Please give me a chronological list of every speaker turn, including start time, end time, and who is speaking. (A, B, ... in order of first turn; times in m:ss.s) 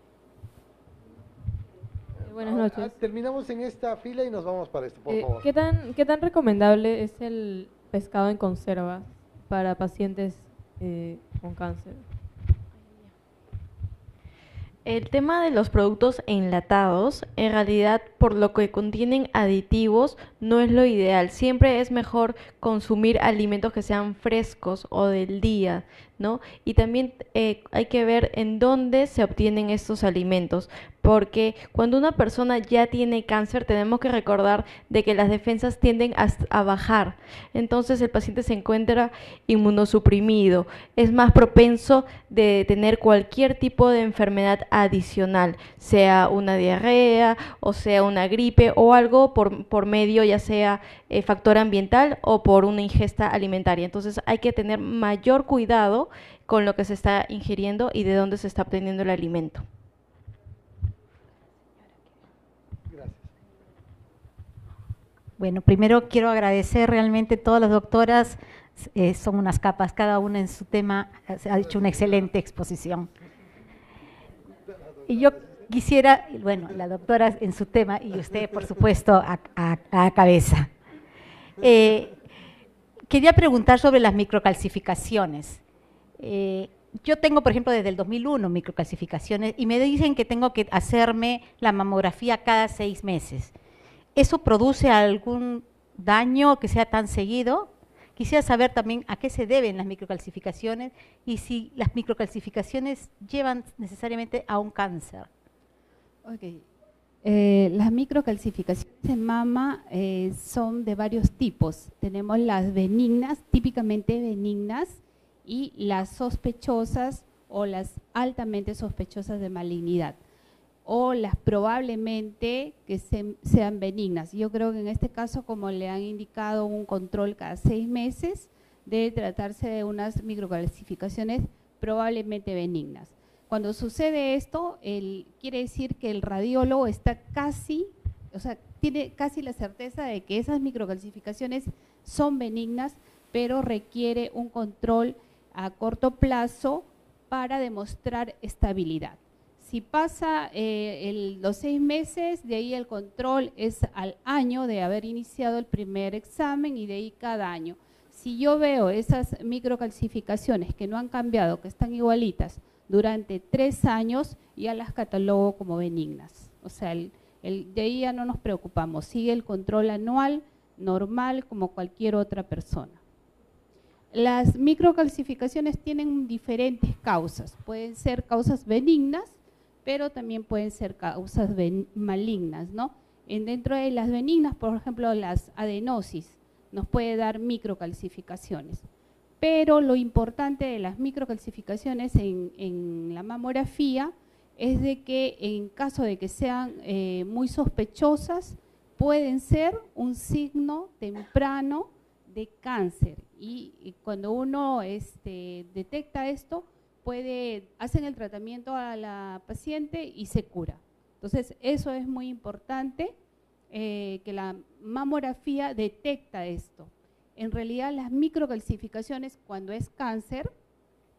0:02.2-0:05.5 A
0:02.2-0:02.9 B
0:05.1-0:12.1 B
0:12.8-0:13.1 C
0:14.8-0:59.6 C
1:02.9-1:03.3 A
1:05.4-1:13.1 D
1:14.7-1:15.7 A
1:15.1-1:20.7 D
1:18.2-1:18.7 A
1:21.6-1:22.2 D
1:23.1-1:25.6 D
1:26.2-1:33.5 D
1:34.2-1:45.3 D
1:46.2-1:46.6 E
1:47.2-2:00.2 E
2:00.8-2:53.0 E
2:54.1-3:08.9 E
3:09.4-3:33.2 E
3:33.7-3:40.5 E